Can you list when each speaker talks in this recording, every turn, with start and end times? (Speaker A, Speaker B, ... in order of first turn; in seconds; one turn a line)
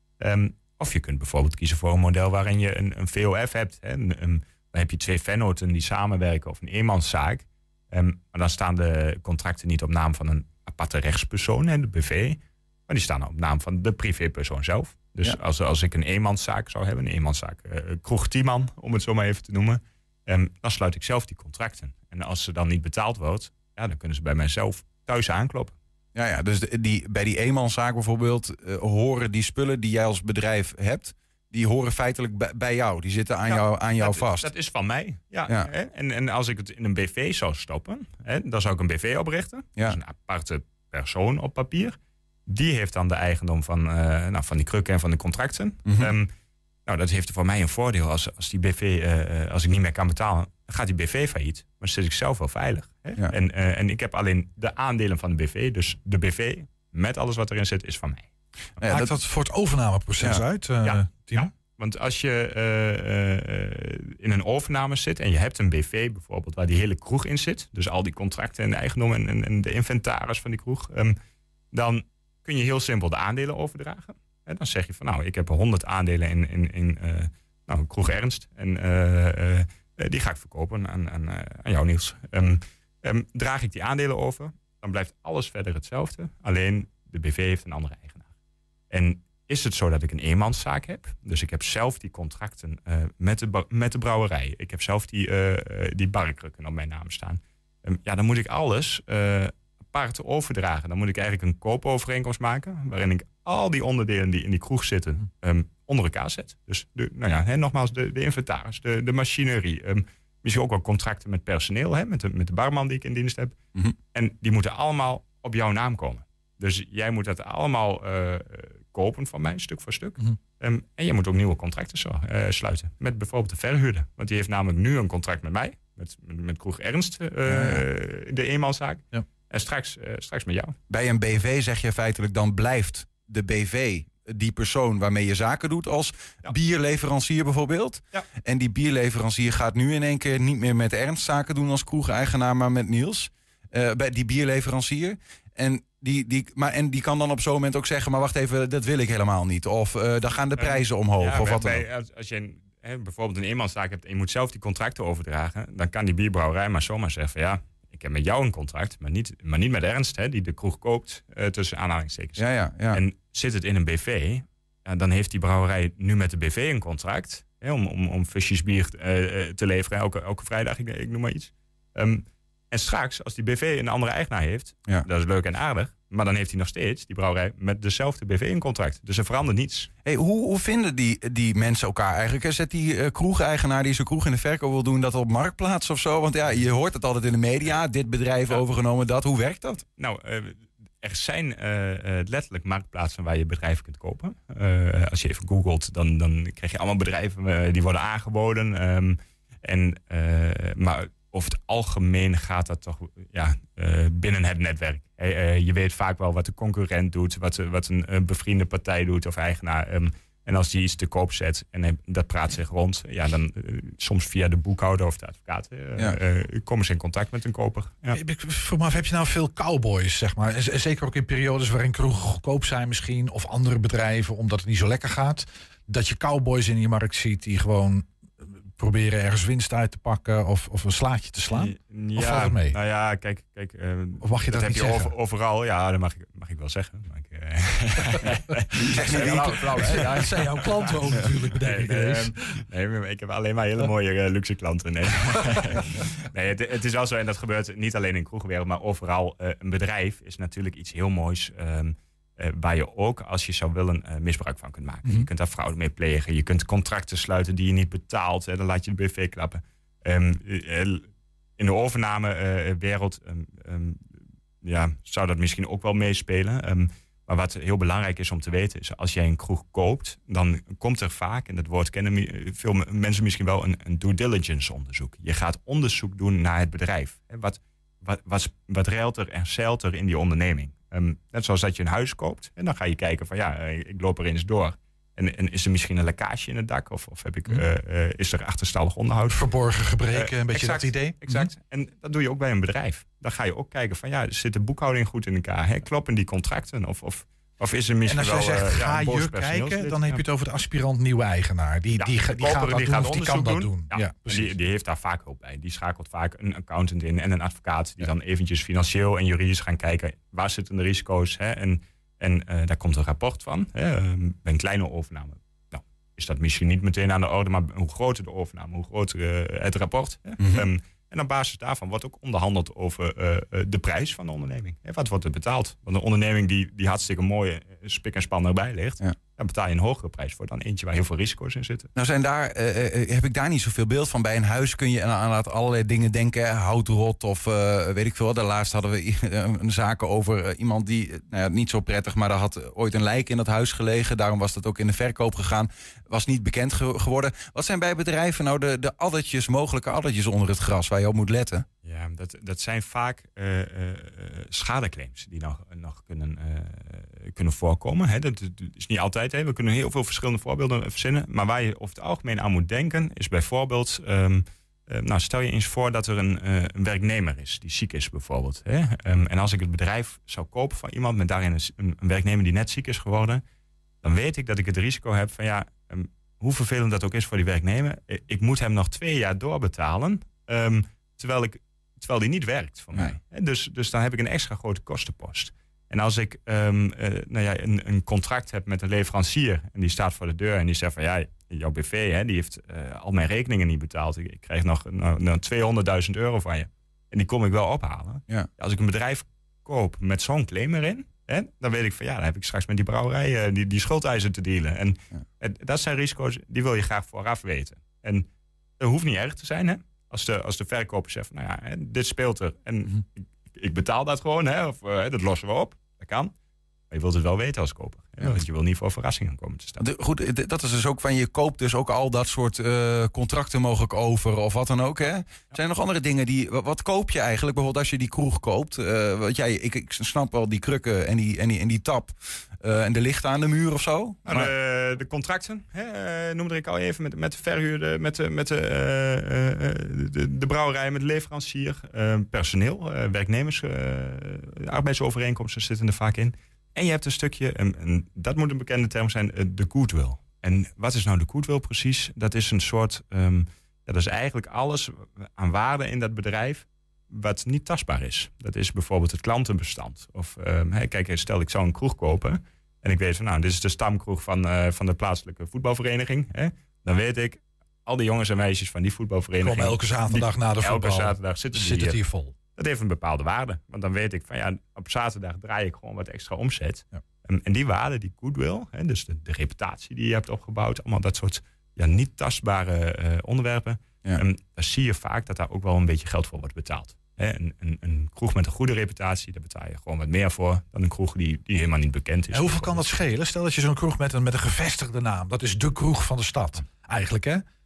Speaker A: 0.2-25.8
Speaker B: 26.1-34.5
Speaker A: 33.5-46.3
Speaker B: 45.9-46.1
Speaker A: 46.9-58.3
Speaker B: 58.8-59.1
Speaker C: 58.9-61.5
Speaker A: 60.8-71.2
Speaker A: 71.7-88.3
Speaker A: 88.9-113.6
Speaker A: 114.1-130.8
Speaker B: 127.5-127.8
Speaker B: 130.9-151.8
Speaker A: 150.6-179.9
Speaker B: 162.4-163.0
Speaker B: 180.1-189.8
Speaker A: 190.0-218.2
Speaker C: 218.1-232.8
Speaker A: 231.5-241.0
Speaker C: 234.2-235.1
Speaker B: 238.9-240.4
Speaker C: 239.1-242.6
Speaker A: 241.6-289.5
Speaker C: 289.3-291.5
Speaker A: 290.1-300.2
Speaker C: 298.1-304.5
Speaker A: 302.0-331.9
Speaker B: 320.4-320.7
Speaker B: 331.9-351.6
Speaker A: 351.8-373.4
Speaker A: 374.0-408.3
Speaker A: 408.8-416.3
Speaker A: 416.9-419.8
Speaker B: 419.8-434.5
Speaker A: 434.3-472.0
Speaker C: 469.4-472.4
Speaker A: 472.5-492.9
Speaker C: 492.3-497.4